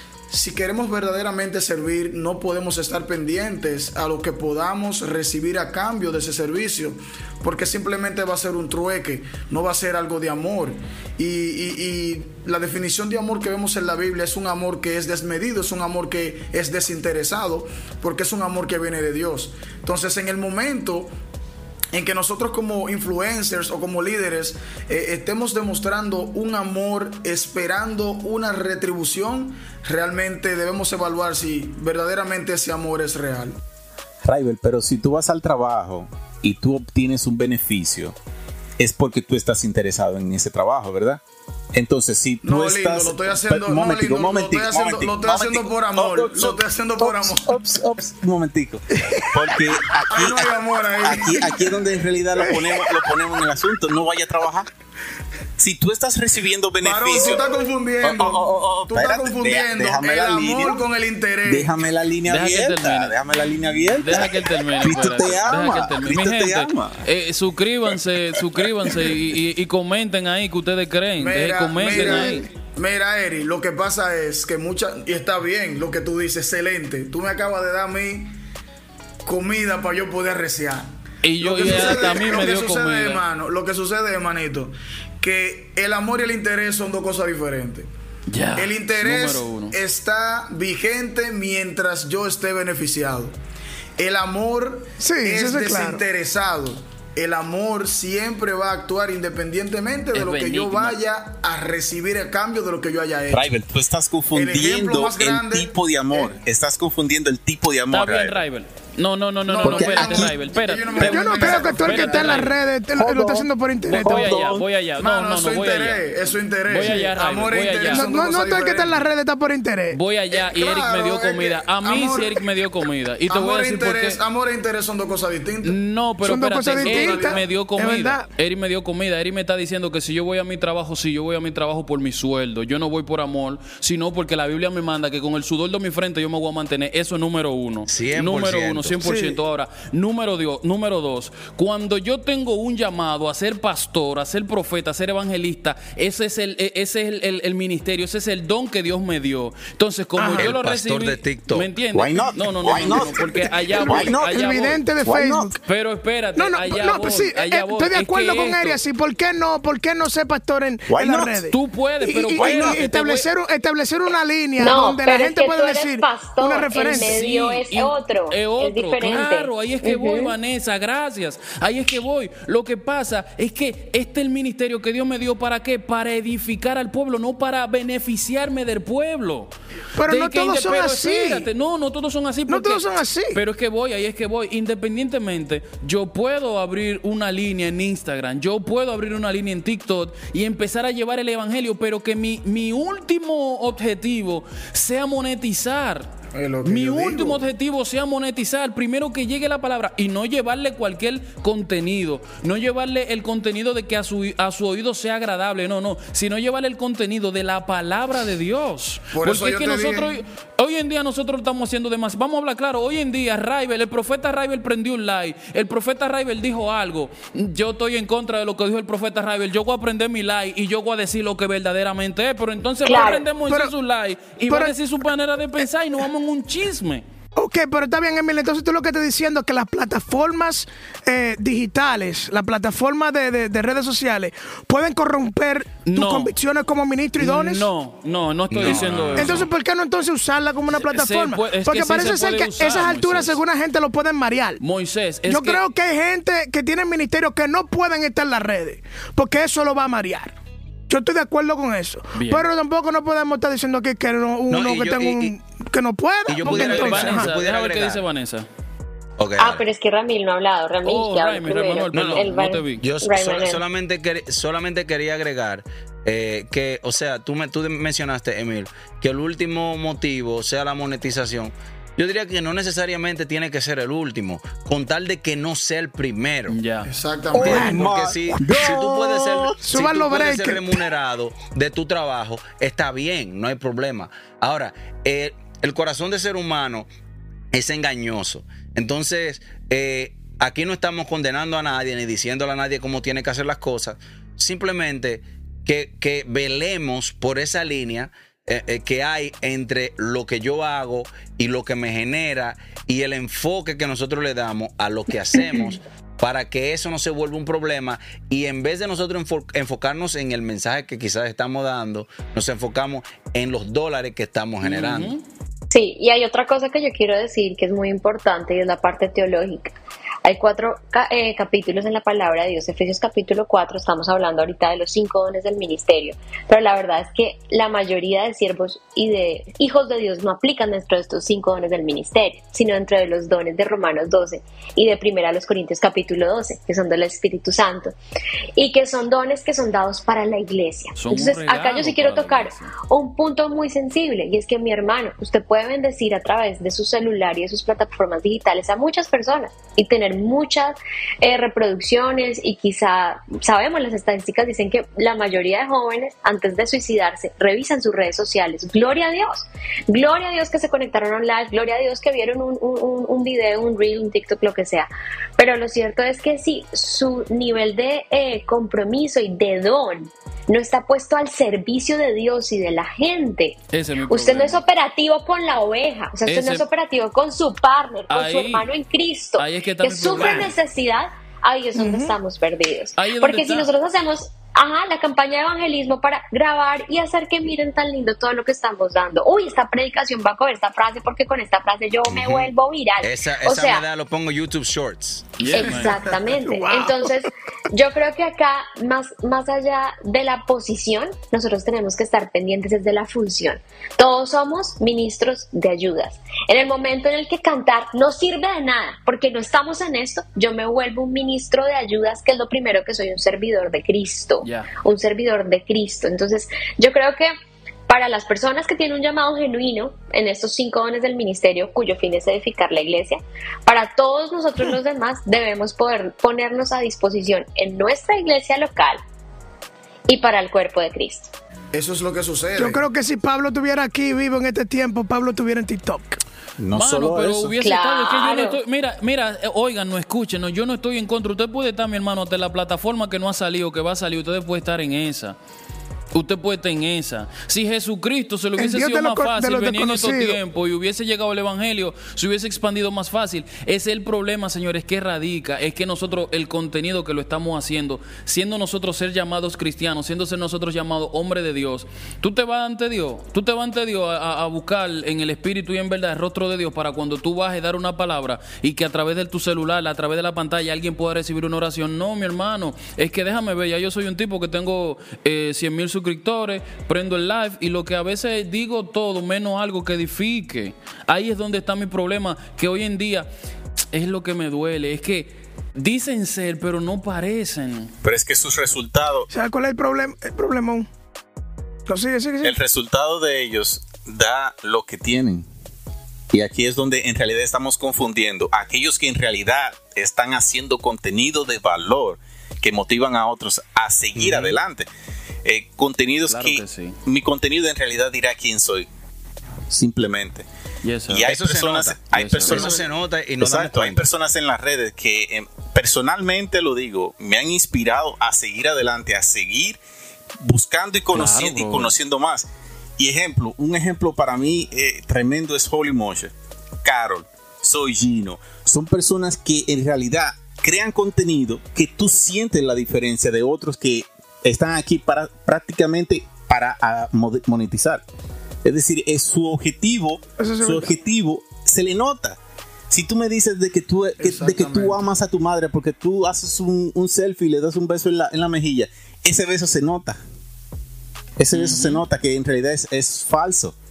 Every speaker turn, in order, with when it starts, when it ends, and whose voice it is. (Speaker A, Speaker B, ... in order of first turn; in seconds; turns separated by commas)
Speaker A: 0.3-21.1, Speaker A: 21.9-33.6, Speaker B: 34.2-38.1, Speaker B: 38.8-41.2, Speaker B: 41.7-54.7, Speaker A: 42.4-47.6, Speaker A: 50.1-51.7, Speaker B: 55.6-60.8, Speaker A: 56.8-61.8, Speaker B: 61.5-67.0, Speaker C: 62.3-63.1, Speaker C: 64.0-72.5, Speaker A: 71.2-78.3, Speaker A: 79.2-80.9, Speaker C: 81.2-83.2, Speaker A: 81.4-87.9, Speaker C: 88.3-89.8, Speaker A: 88.5-93.3, Speaker A: 94.0-103.5, Speaker D: 95.0-96.0, Speaker C: 100.1-101.0, Speaker B: 103.3-108.4, Speaker A: 104.3-106.3, Speaker C: 107.9-112.5, Speaker A: 109.5-112.6, Speaker B: 109.6-110.3, Speaker D: 111.0-114.3, Speaker B: 112.9-113.5, Speaker C: 113.9-116.0, Speaker B: 114.0-114.7, Speaker A: 115.0-119.0, Speaker C: 116.7-118.1, Speaker D: 117.9-120.0, Speaker C: 119.9-124.2, Speaker A: 120.3-122.4, Speaker A: 123.3-125.8, Speaker C: 125.6-154.8, Speaker D: 126.2-128.3, Speaker A: 126.8-127.4, Speaker E: 137.9-139.1, Speaker D: 139.0-139.4, Speaker D: 150.2-150.5, Speaker E: 150.4-151.7, Speaker B: 151.9-154.5, Speaker D: 153.6-155.6, Speaker B: 155.0-155.5, Speaker C: 155.6-158.8, Speaker D: 156.3-167.2, Speaker B: 160.9-161.4, Speaker C: 161.5-163.3, Speaker B: 162.4-162.8, Speaker F: 164.6-170.3, Speaker C: 166.8-179.5, Speaker D: 179.9-181.5, Speaker C: 180.1-196.1, Speaker D: 182.5-183.4, Speaker A: 196.3-197.4, Speaker C: 196.6-227.0, Speaker A: 209.1-210.2, Speaker F: 222.8-223.2, Speaker D: 223.4-223.7, Speaker D: 224.5-224.7, Speaker D: 227.4-237.7, Speaker C: 235.8-236.3, Speaker C: 237.2-239.4, Speaker E: 238.5-239.5, Speaker D: 238.7-244.6, Speaker C: 240.7-243.4, Speaker C: 244.6-245.6, Speaker D: 245.2-250.3, Speaker D: 250.9-257.3, Speaker C: 252.1-252.4, Speaker E: 254.5-255.3, Speaker E: 256.3-258.0, Speaker C: 256.4-258.4, Speaker E: 259.2-259.6, Speaker F: 259.4-263.6, Speaker C: 260.8-262.8, Speaker E: 261.9-276.6, Speaker C: 276.5-276.9, Speaker A: 276.8-277.9, Speaker B: 277.3-279.6, Speaker E: 277.4-286.9, Speaker D: 277.4-277.8, Speaker D: 279.6-280.8, Speaker E: 287.5-315.1, Speaker C: 314.6-315.2, Speaker F: 315.7-337.9, Speaker F: 338.6-393.8, Speaker C: 340.9-342.7, Speaker C: 373.7-374.6, Speaker C: 376.2-376.6, Speaker C: 378.1-378.7, Speaker C: 379.4-380.5, Speaker D: 381.7-382.1, Speaker C: 382.9-383.7, Speaker E: 392.1-392.5, Speaker E: 393.0-395.4, Speaker C: 395.4-396.0, Speaker F: 395.5-417.3, Speaker D: 396.4-397.1, Speaker C: 414.4-414.7, Speaker F: 417.9-429.0, Speaker F: 430.1-431.3, Speaker A: 431.7-432.8, Speaker D: 432.6-436.2, Speaker B: 436.6-437.6, Speaker C: 436.7-445.4, Speaker F: 437.6-438.6, Speaker C: 446.1-483.3, Speaker D: 448.6-450.4, Speaker C: 483.9-487.9, Speaker B: 488.0-489.3, Speaker D: 489.3-490.9, Speaker D: 491.9-492.6, Speaker B: 492.4-495.5, Speaker B: 496.3-504.9, Speaker E: 504.2-504.5, Speaker B: 505.4-508.9, Speaker C: 506.3-507.0, Speaker B: 509.7-510.4, Speaker C: 510.8-511.3, Speaker B: 511.1-519.8, Speaker E: 511.3-514.0, Speaker C: 512.1-512.8, Speaker B: 520.4-526.3, Speaker C: 521.1-521.9, Speaker B: 526.8-538.0, Speaker B: 538.6-542.4, Speaker D: 540.4-540.9, Speaker B: 542.9-550.2, Speaker A: 544.2-545.0, Speaker B: 551.4-553.7, Speaker C: 551.5-552.0